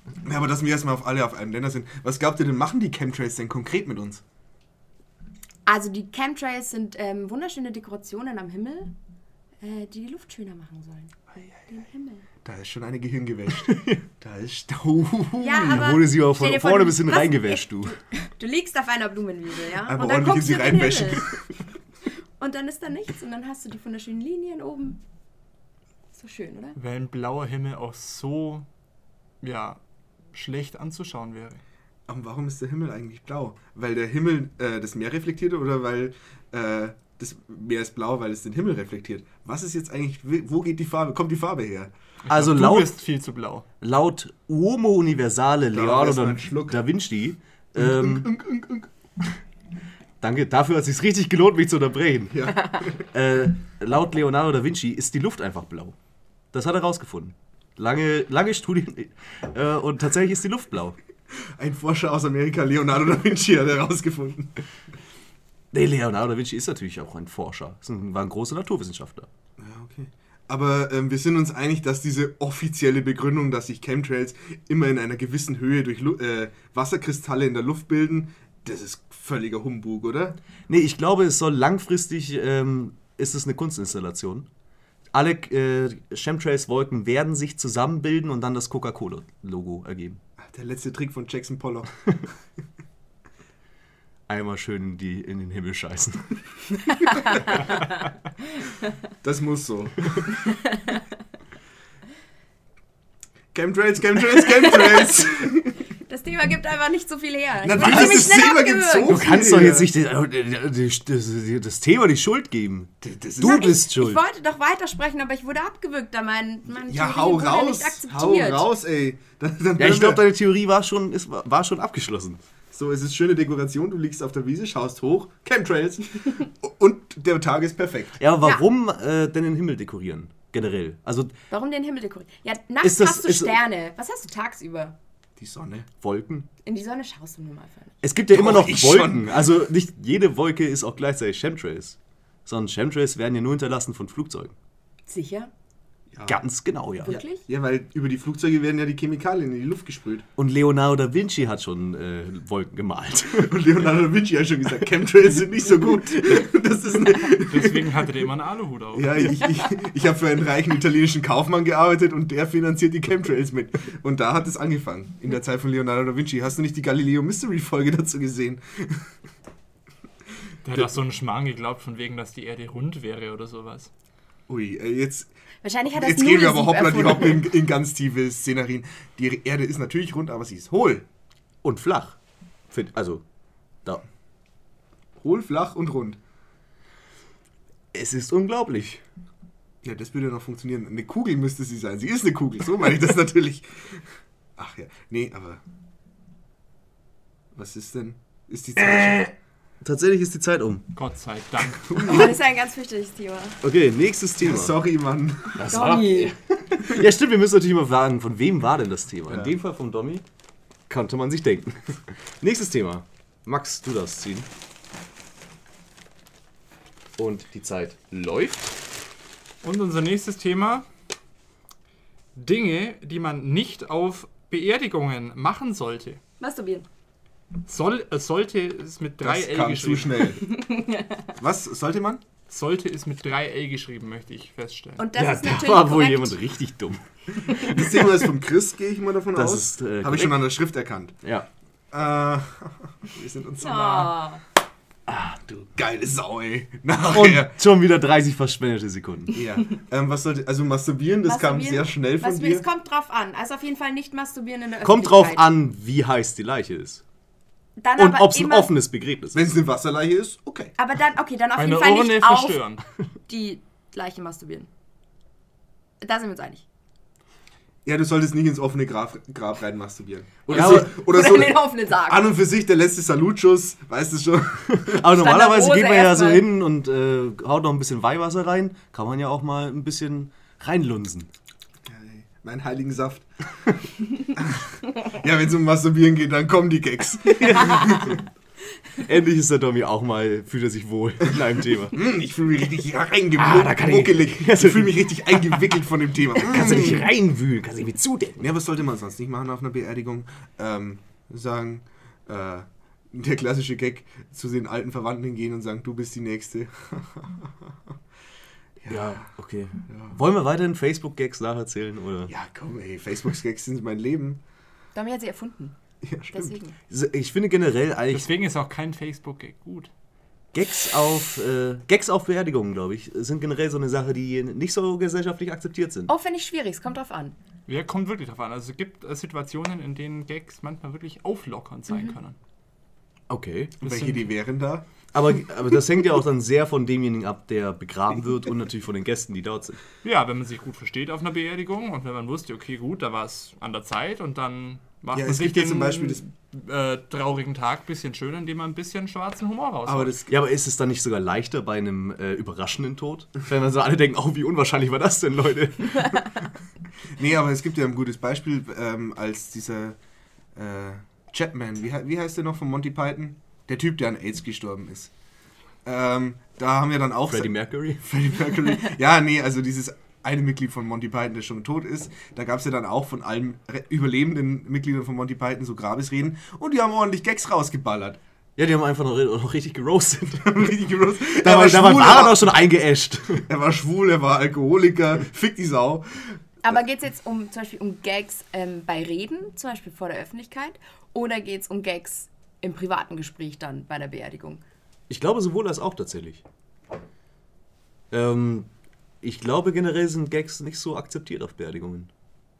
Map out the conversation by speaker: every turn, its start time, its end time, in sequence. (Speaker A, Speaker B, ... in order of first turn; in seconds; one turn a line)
Speaker A: 0.2-4.2
Speaker B: 5.7-8.9
Speaker B: 9.6-12.3
Speaker A: 12.4-16.0
Speaker C: 13.6-14.0
Speaker B: 15.4-21.3
Speaker C: 15.6-18.0
Speaker A: 19.9-21.4
Speaker B: 22.4-25.0
Speaker B: 26.1-26.8
Speaker D: 26.8-28.7
Speaker D: 29.4-29.8
Speaker D: 30.3-31.6
Speaker A: 32.1-41.9
Speaker D: 42.3-43.7
Speaker C: 42.3-42.9
Speaker C: 43.8-48.3
Speaker A: 45.7-46.8
Speaker A: 47.8-48.9
Speaker C: 50.2-52.5
Speaker A: 52.3-53.0
Speaker C: 53.1-56.0
Speaker C: 56.5-61.0
Speaker A: 61.6-64.6
Speaker C: 65.7-69.3
Speaker A: 69.6-80.4
Speaker C: 80.7-84.5
Speaker C: 85.1-90.2
Speaker A: 90.4-92.3
Speaker C: 94.3-96.3
Speaker B: 97.1-97.7
Speaker A: 99.2-100.4
Speaker A: 103.5-105.8
Speaker B: 104.7-105.0
Speaker B: 106.1-109.2
Speaker A: 107.6-109.9
Speaker C: 107.7-108.3
Speaker C: 109.1-114.2
Speaker A: 113.0-113.7
Speaker B: 113.4-118.7
Speaker A: 116.7-120.2
Speaker C: 119.8-122.4
Speaker A: 122.7-128.2
Speaker C: 128.2-131.3
Speaker B: 131.5-135.0
Speaker C: 132.8-133.6
Speaker A: 135.4-135.9
Speaker C: 136.0-136.5
Speaker B: 136.7-137.9
Speaker C: 138.0-144.6
Speaker A: 138.3-139.4
Speaker B: 145.1-145.5
Speaker A: 146.1-146.4
Speaker C: 146.3-147.2
Speaker B: 147.0-147.4
Speaker A: 147.0-150.3
Speaker C: 150.4-153.5
Speaker A: 153.4-158.0
Speaker D: 157.3-159.3
Speaker A: 158.9-169.1
Speaker D: 170.6-173.9
Speaker A: 174.5-175.3
Speaker B: 175.6-177.5
Speaker A: 175.9-181.1
Speaker C: 181.6-182.2
Speaker C: 182.7-183.2
Speaker A: 185.2-186.2
Speaker C: 187.9-189.0
Speaker A: 189.8-194.0
Speaker A: 194.6-195.6
Speaker A: 197.5-199.3
Speaker C: 198.8-200.9
Speaker D: 200.9-202.2
Speaker A: 201.8-202.3
Speaker B: 201.9-203.6
Speaker C: 203.6-204.8
Speaker A: 204.4-205.8
Speaker C: 205.6-210.2
Speaker B: 205.7-206.3
Speaker A: 209.3-209.6
Speaker C: 210.9-214.5
Speaker C: 217.2-218.8
Speaker D: 219.6-220.9
Speaker D: 222.4-226.2
Speaker B: 226.4-226.9
Speaker D: 227.7-230.3
Speaker A: 229.2-230.4
Speaker B: 230.4-231.3
Speaker A: 231.4-232.2
Speaker D: 232.5-235.0
Speaker B: 235.0-236.4
Speaker C: 235.1-238.1
Speaker A: 237.6-241.2
Speaker C: 239.3-240.4
Speaker C: 241.2-241.5
Speaker A: 241.9-244.1
Speaker B: 243.6-244.4
Speaker C: 245.1-245.7
Speaker A: 245.8-247.6
Speaker C: 247.1-249.4
Speaker A: 249.3-252.7
Speaker B: 251.3-255.5
Speaker C: 254.8-257.0
Speaker B: 257.8-258.7
Speaker C: 258.0-259.4
Speaker A: 259.3-260.7
Speaker B: 260.8-262.6
Speaker D: 261.6-262.8
Speaker B: 263.3-264.7
Speaker B: 266.0-266.6
Speaker A: 267.9-275.0
Speaker B: 270.5-272.3
Speaker C: 270.5-271.4
Speaker C: 274.7-281.3
Speaker B: 275.1-276.5
Speaker A: 281.9-283.3
Speaker A: 284.3-288.2
Speaker C: 287.3-288.2
Speaker C: 289.0-292.0
Speaker A: 291.9-297.1
Speaker C: 293.4-294.9
Speaker C: 296.4-298.4
Speaker D: 296.5-296.8
Speaker A: 298.4-307.5
Speaker A: 308.8-309.2
Speaker C: 308.9-312.3
Speaker A: 309.9-310.2
Speaker A: 312.3-314.4
Speaker B: 314.9-315.8
Speaker A: 316.0-316.6
Speaker B: 316.3-316.7
Speaker C: 316.9-318.3
Speaker D: 318.1-319.9
Speaker C: 320.5-326.1
Speaker B: 326.1-327.4
Speaker D: 327.7-332.4
Speaker B: 331.9-332.2
Speaker C: 333.3-333.8
Speaker A: 333.8-334.9
Speaker D: 333.8-334.3
Speaker C: 335.1-339.8
Speaker D: 340.0-350.1
Speaker A: 345.1-346.2
Speaker A: 349.9-350.4
Speaker C: 350.3-356.3
Speaker A: 357.1-360.0
Speaker A: 360.6-365.1
Speaker A: 365.9-378.2
Speaker C: 367.3-368.1
Speaker C: 378.6-380.7
Speaker A: 380.4-382.6
Speaker C: 381.3-383.4
Speaker A: 383.5-386.4
Speaker B: 386.6-394.6
Speaker C: 395.1-396.4
Speaker C: 398.1-398.7
Speaker C: 399.2-402.1